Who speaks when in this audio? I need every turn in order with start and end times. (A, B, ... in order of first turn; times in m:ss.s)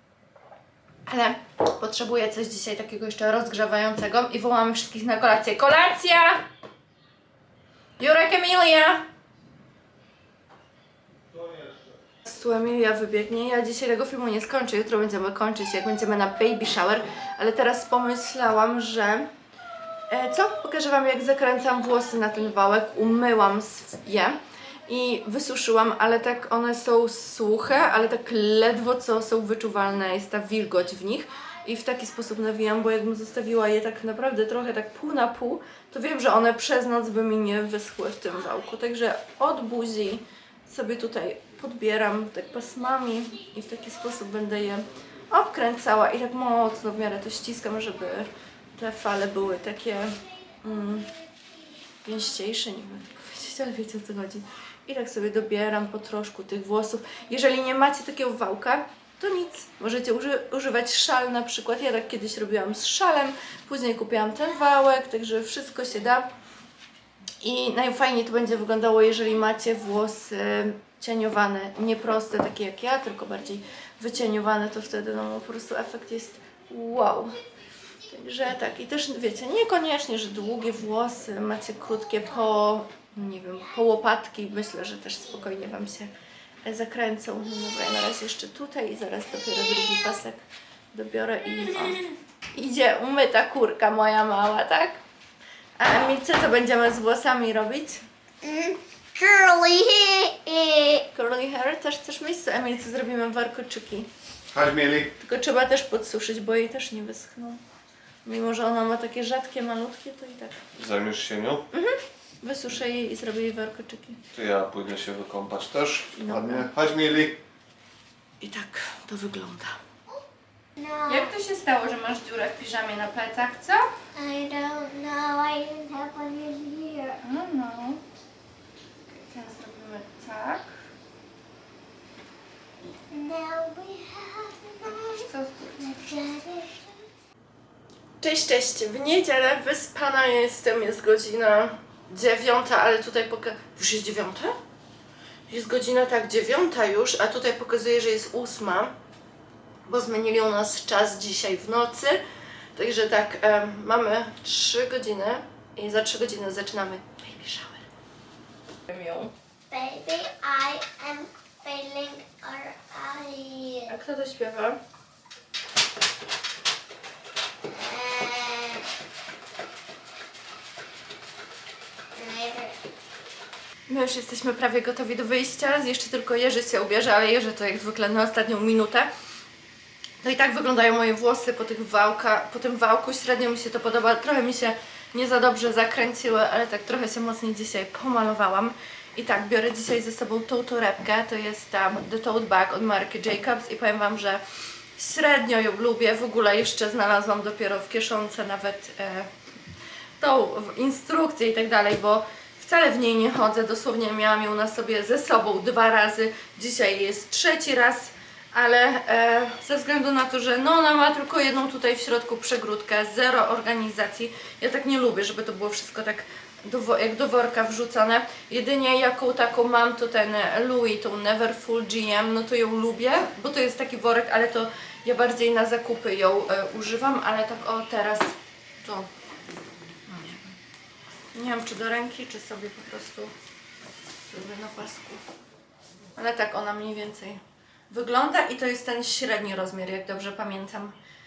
0:01.0-0:06.4 A
0:08.0-0:09.0 A
0:11.3-0:11.9 B
0:12.2-0:19.3 A
0:20.1-0:51.1 A
0:52.0-1:06.3 A
1:07.4-1:17.4 A
1:18.1-1:26.1 A
1:26.6-1:35.0 A
1:35.8-1:38.0 A
1:38.4-1:41.0 C
1:41.1-1:44.1 A
1:44.5-1:45.1 B
1:45.2-1:47.6 A
1:48.2-1:50.6 A
1:50.7-1:51.6 B
1:51.7-1:54.2 A
1:54.3-1:57.4 B
1:56.2-1:56.7 A
1:58.4-1:59.8 A
2:00.8-2:01.3 C
2:01.1-2:03.8 A
2:04.2-2:07.2 C
2:07.2-2:08.0 A
2:09.1-2:10.7 A
2:12.9-2:15.2 C
2:15.2-2:15.8 A
2:15.8-2:16.9 C
2:18.2-2:24.6 A
2:25.5-2:28.9 A
2:29.9-2:32.2 A
2:32.8-2:37.8 A
2:38.9-2:39.3 A
2:39.7-2:43.9 C
2:43.9-2:44.8 A
2:47.6-2:48.8 C
2:52.2-2:52.8 C
2:53.9-2:59.1 A
3:00.2-3:14.4 A
3:15.0-3:19.3 A
3:20.2-3:49.1 A
3:50.1-3:50.6 A
3:51.3-3:53.3 A
3:54.3-3:55.2 A
3:56.2-4:01.0 A